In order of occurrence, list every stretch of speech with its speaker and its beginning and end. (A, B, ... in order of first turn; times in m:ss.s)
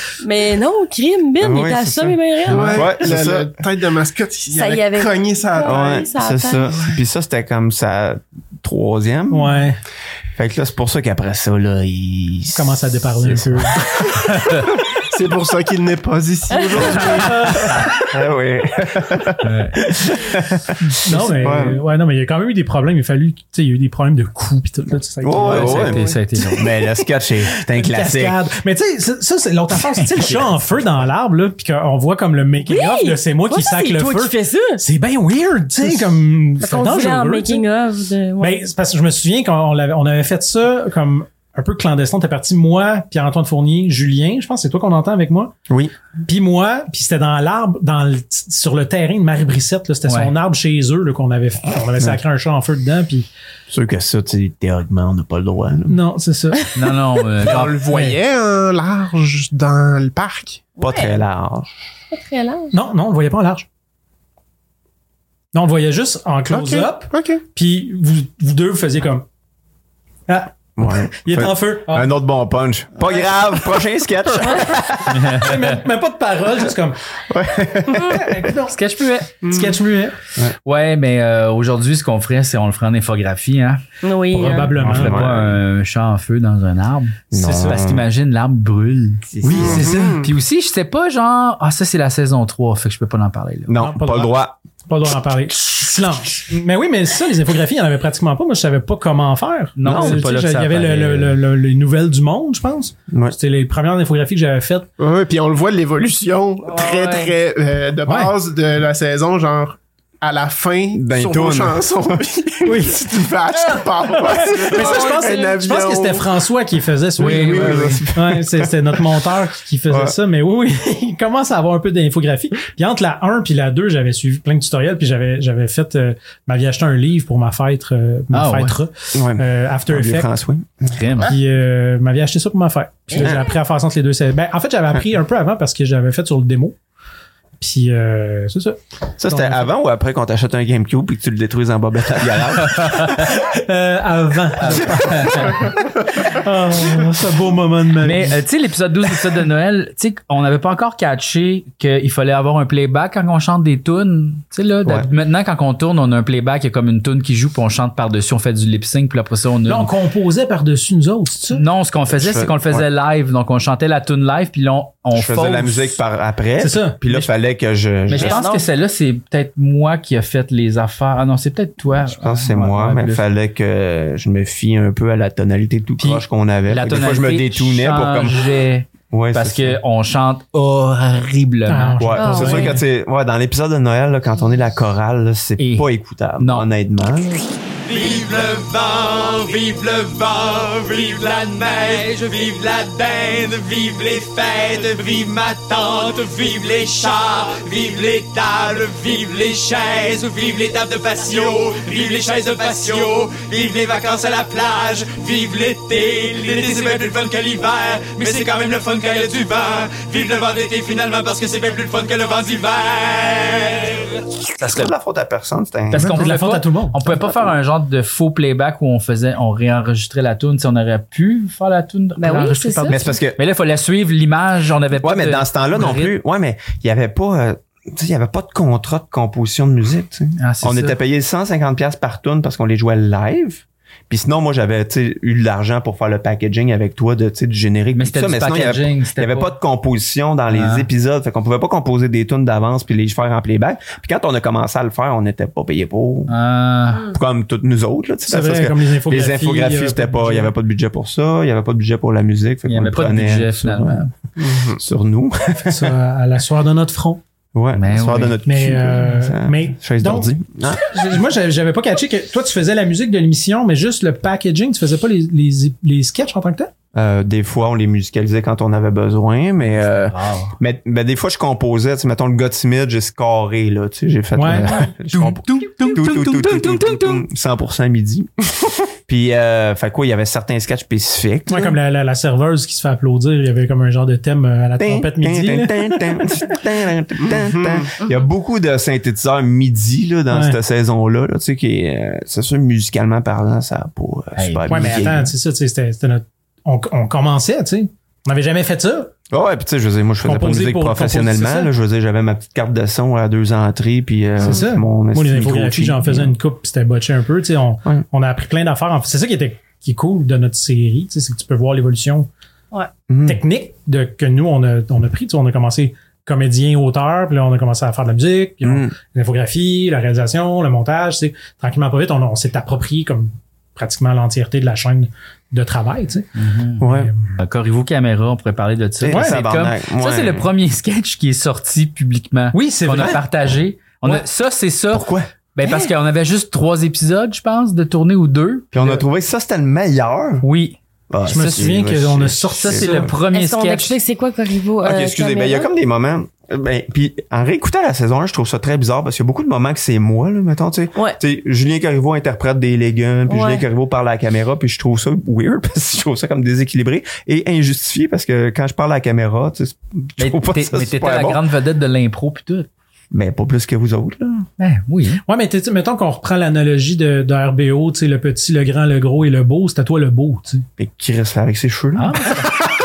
0:00.2-0:02.9 A
0:01.4-0:03.6 B
0:02.5-0:06.1 C
0:04.5-0:06.8 A
0:05.6-0:09.6 B
0:09.3-0:09.8 D
0:10.4-0:14.1 B
0:12.5-0:14.5 D
0:15.0-0:17.8 C
0:16.6-0:17.2 A
0:17.3-0:17.7 D
0:18.0-0:21.8 B
0:19.4-0:19.8 E
0:20.9-0:26.1 D
0:25.2-0:28.5 B
0:25.4-0:26.6 E
0:27.7-0:37.6 D
0:32.7-0:34.8 A
0:36.6-0:38.6 A
0:38.4-0:45.5 D
0:46.3-0:53.3 D
0:50.1-0:50.3 E
0:53.7-0:56.0 B
0:55.9-0:56.7 D
0:56.8-0:57.9 E
0:57.4-1:00.8 C
1:00.8-1:01.2 A
1:00.8-1:01.7 B
1:02.1-1:02.7 A
1:02.7-1:03.6 D
1:05.5-1:09.2 D
1:06.5-1:07.4 C
1:10.3-1:12.1 D
1:10.8-1:15.2 B
1:14.5-1:17.0 D
1:15.1-1:15.7 E
1:17.3-1:18.5 B
1:17.9-1:18.2 A
1:18.0-1:18.8 D
1:18.7-1:19.4 E
1:19.4-1:20.2 D
1:20.6-1:23.8 E
1:24.0-1:24.8 A
1:24.3-1:25.2 D
1:24.8-1:25.6 B
1:24.8-1:33.7 E
1:27.3-1:28.1 B
1:27.4-1:27.8 D
1:29.3-1:29.9 B
1:29.4-1:30.1 D
1:29.5-1:30.3 C
1:33.7-1:34.6 B
1:33.8-1:34.4 D
1:34.9-1:44.9 D
1:39.8-1:41.4 E
1:39.8-1:40.2 B
1:43.1-1:43.4 B
1:45.0-1:56.3 C
1:46.7-1:47.4 A
1:48.1-1:48.3 D
1:50.9-1:52.2 B
1:52.6-2:10.3 D
1:54.7-1:55.6 A
1:57.2-1:58.9 B
1:57.2-1:58.0 E
1:59.9-2:00.1 B
2:08.3-2:08.8 E
2:09.1-2:11.0 B
2:10.9-2:11.4 E
2:11.2-2:16.8 D
2:13.1-2:13.4 A
2:13.2-2:13.4 B
2:17.6-2:19.6 D
2:19.2-2:23.3 B
2:22.8-2:23.1 E
2:23.2-2:28.4 D
2:24.6-2:25.5 E
2:24.7-2:25.3 B
2:28.0-2:39.9 E
2:39.7-2:41.6 D
2:41.5-2:46.0 E
2:42.2-2:42.9 B
2:45.1-2:48.4 B
2:46.6-2:47.0 D
2:48.1-2:53.2 E
2:48.1-2:48.7 A
2:52.0-2:58.5 B
2:56.0-3:02.4 E
2:59.1-2:59.8 B
3:01.7-3:02.8 D
3:02.0-3:07.4 B
3:02.2-3:02.8 A
3:05.6-3:05.9 E
3:06.4-3:06.7 E
3:07.9-3:34.2 F
3:34.6-3:36.3 B
3:34.6-3:34.9 E
3:35.9-3:46.1 E
3:35.9-3:37.0 D
3:37.1-3:37.5 B
3:42.2-3:43.1 A
3:42.9-3:43.4 B
3:45.0-4:06.3 B
3:50.4-3:51.0 E
3:58.0-3:59.5 E
4:00.5-4:00.9 E
4:06.3-4:07.1 E
4:06.9-4:07.2 A
4:07.1-4:14.1 B
4:08.3-4:10.5 D
4:12.7-4:14.1 E
4:14.4-4:14.8 C
4:14.7-4:15.9 B
4:15.6-4:17.2 D
4:17.6-4:20.9 B
4:17.7-4:18.4 E
4:18.4-4:20.3 D
4:20.8-4:26.7 D
4:27.0-4:38.3 B
4:29.8-4:30.6 E
4:34.3-4:34.7 D
4:34.4-4:37.2 E
4:39.1-4:41.8 B
4:41.5-4:46.2 D
4:44.8-4:55.3 B
4:47.2-4:47.9 C
4:50.3-4:50.6 D
4:54.4-4:55.1 E
4:54.7-4:59.1 D
4:59.3-5:06.4 B
5:00.2-5:01.7 D
5:04.4-5:12.3 D
5:13.1-5:13.4 B
5:13.2-5:26.3 D
5:18.6-5:18.9 B
5:26.4-5:26.9 E
5:26.8-5:27.1 B
5:26.8-5:27.2 D
5:27.4-5:38.7 E
5:29.0-5:30.5 B
5:29.1-5:29.4 D
5:32.5-5:33.2 D
5:34.9-5:35.3 B
5:35.6-5:35.9 A
5:38.7-5:40.5 B
5:40.4-5:40.8 E
5:41.1-5:43.1 B
5:41.3-5:43.1 D
5:41.4-5:41.7 E
5:42.6-5:44.0 E
5:43.3-5:45.7 A
5:44.8-6:01.4 B
5:53.3-5:53.6 A
6:00.2-6:02.7 E
6:03.1-6:04.5 B
6:04.6-6:05.2 E
6:05.3-6:10.6 D
6:10.8-6:12.4 B
6:12.0-6:12.5 E